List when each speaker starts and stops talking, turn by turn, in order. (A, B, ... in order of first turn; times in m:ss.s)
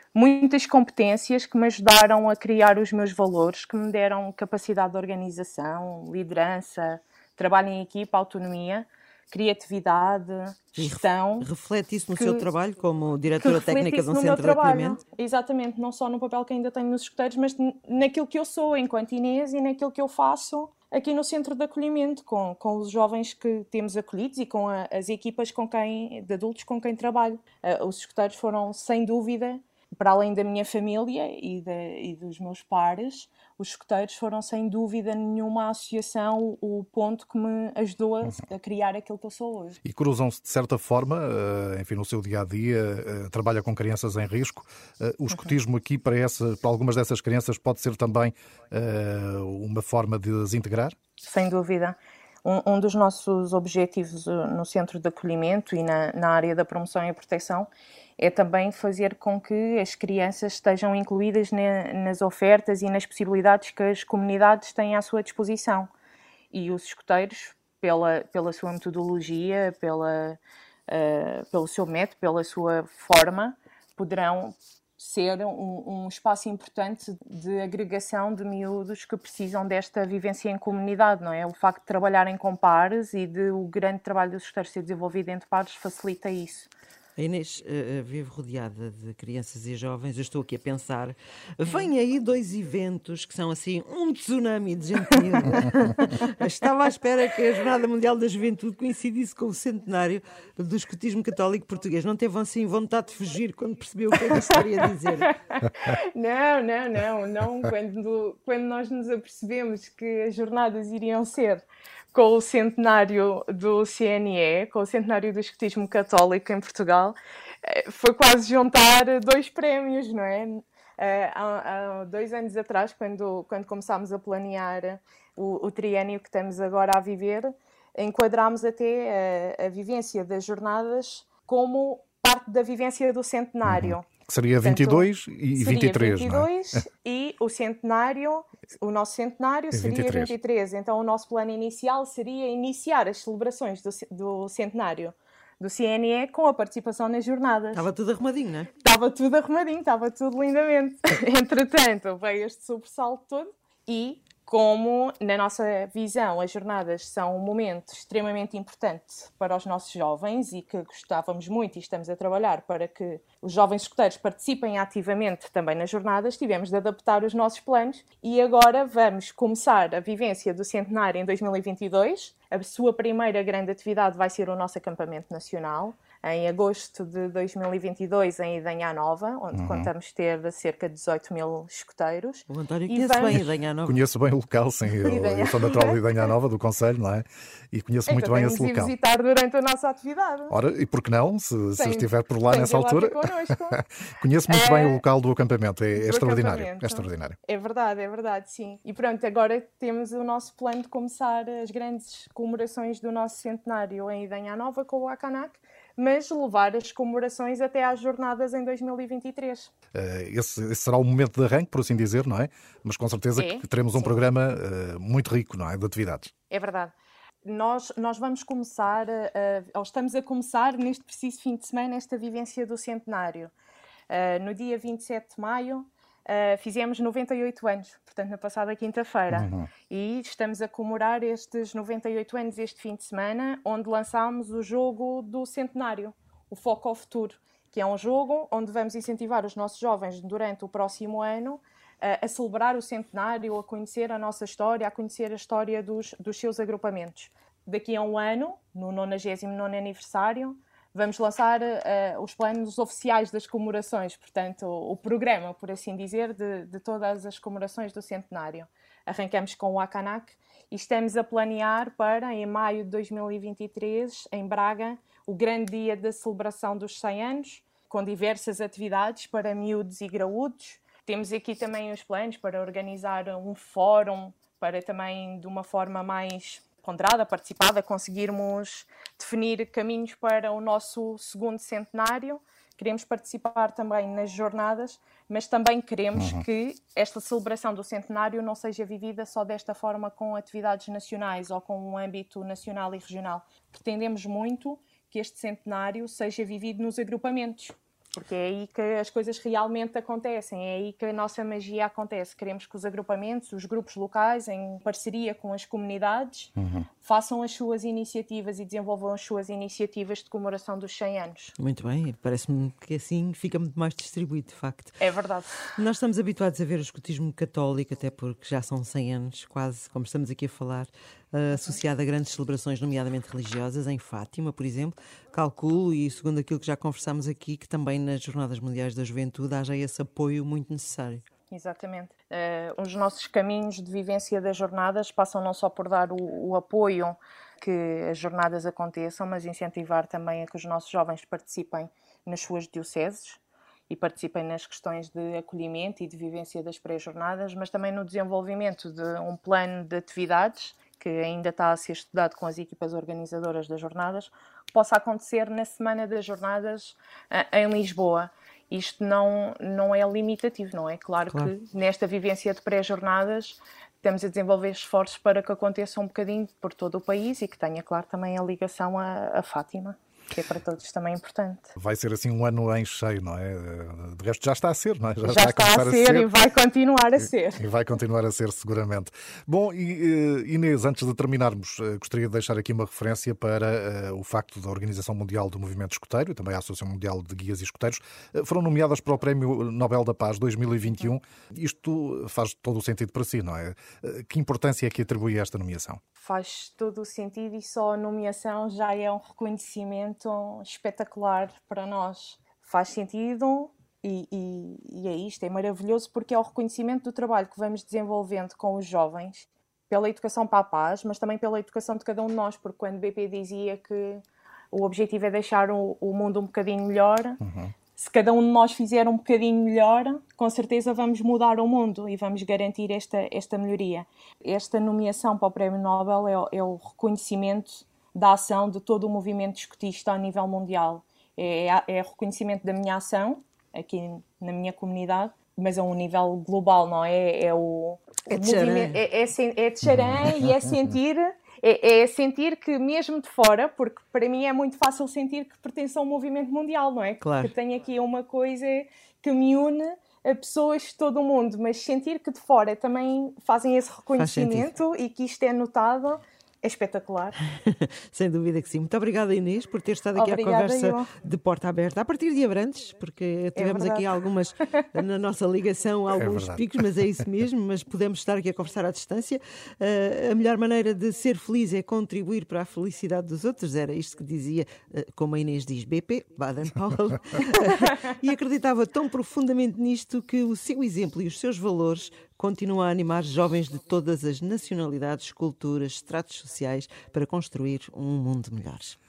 0:00.1-0:11.5 A
0:10.8-0:15.0 B
0:12.2-0:12.4 A
0:13.4-0:39.8 A
0:39.8-0:50.9 C
0:51.2-1:05.9 A
1:06.5-1:26.7 A
1:27.2-1:45.3 B
1:45.6-2:14.1 A
2:13.6-2:16.5 C
2:14.6-2:27.9 A
2:19.7-2:20.3 C
2:27.7-2:28.7 B
2:28.8-3:03.4 A
2:59.5-2:59.9 C
3:02.5-3:04.0 B
3:03.3-3:08.9 C
3:05.0-3:06.3 A
3:08.1-3:10.5 A
3:10.5-3:17.4 C
3:11.7-3:13.8 A
3:14.5-3:15.0 A
3:16.0-3:29.7 A
3:29.9-3:36.3 C
3:33.3-3:34.2 A
3:36.5-3:36.9 A
3:37.4-3:43.5 A
3:44.1-5:11.5 A
3:49.3-3:49.7 C
5:11.6-5:14.9 B
5:15.0-5:15.7 A
5:15.7-5:31.2 B
5:31.5-6:11.7 A
6:11.7-6:16.3 C
6:15.2-6:17.6 A
6:17.5-6:36.0 C
6:36.2-6:57.4 A
6:57.4-6:57.7 C
6:58.0-7:37.4 A
7:18.3-7:19.0 B
7:27.2-7:27.5 B
7:34.2-7:34.7 B
7:37.6-8:09.0 B
7:40.1-7:41.1 A
7:43.5-7:44.0 A
7:46.1-7:46.8 C